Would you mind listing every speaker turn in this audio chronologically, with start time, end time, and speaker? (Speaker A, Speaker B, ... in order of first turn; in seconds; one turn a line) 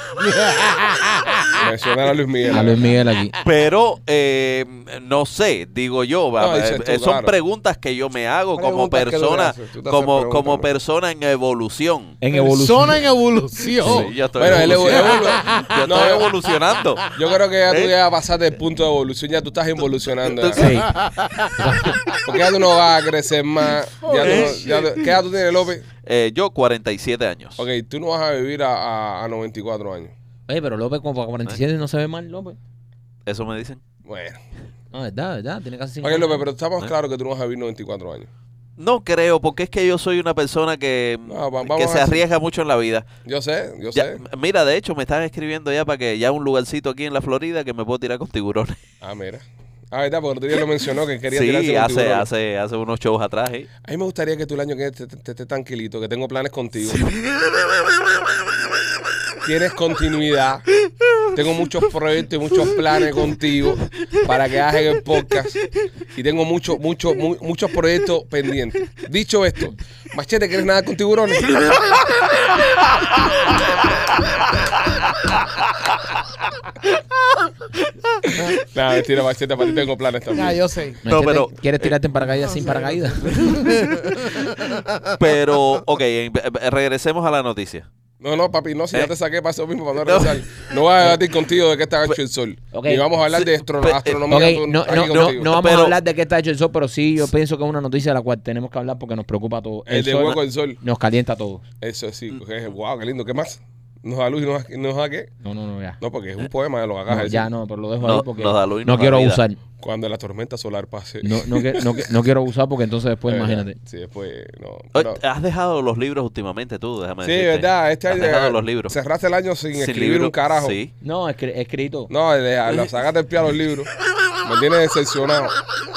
Speaker A: 0.1-1.8
Speaker B: 1.6-2.9
Speaker C: 2.5-3.4
Speaker A: 2.6-3.4
Speaker D: 3.4-12.2
Speaker B: 6.4-7.3
Speaker B: 8.6-10.7
Speaker C: 12.2-13.0
Speaker A: 12.3-17.0
Speaker D: 13.8-17.1
Speaker B: 14.4-16.4
Speaker B: 17.1-20.7
Speaker D: 20.2-21.1
Speaker C: 20.6-22.2
Speaker A: 20.8-22.0
Speaker B: 22.2-25.9
Speaker A: 24.1-24.7
Speaker D: 24.2-25.1
Speaker D: 26.0-27.6
Speaker B: 27.6-30.1
Speaker C: 30.5-32.6
Speaker D: 33.3-33.8
Speaker B: 34.0-34.4
Speaker C: 34.9-36.5
Speaker B: 36.0-38.3
Speaker D: 38.8-43.1
Speaker B: 41.3-42.2
Speaker B: 43.2-44.2
Speaker D: 43.9-48.8
Speaker B: 49.0-52.3
Speaker D: 51.3-53.7
Speaker B: 53.8-57.1
Speaker D: 56.9-58.4
Speaker B: 59.4-60.6
Speaker B: 61.3-65.6
Speaker B: 66.2-72.3
Speaker D: 75.1-76.0
Speaker B: 78.5-80.6
Speaker A: 80.3-81.0
Speaker C: 81.0-83.7
Speaker D: 81.1-82.0
Speaker A: 82.5-85.2
Speaker D: 85.2-87.9
Speaker B: 88.2-95.5
Speaker D: 90.0-90.4
Speaker C: 92.7-93.1
Speaker D: 93.8-94.2
Speaker C: 94.3-101.7
Speaker D: 94.9-96.0
Speaker B: 99.9-100.8
Speaker B: 101.8-105.3
Speaker C: 105.4-106.0
Speaker B: 106.0-107.5
Speaker C: 107.1-109.6
Speaker D: 108.0-109.4
Speaker B: 109.8-112.1
Speaker C: 111.2-113.8
Speaker B: 113.3-115.2
Speaker D: 114.9-118.9
Speaker B: 117.2-120.8
Speaker D: 119.7-120.9
Speaker C: 121.0-122.1
Speaker B: 122.1-123.9
Speaker B: 124.4-125.6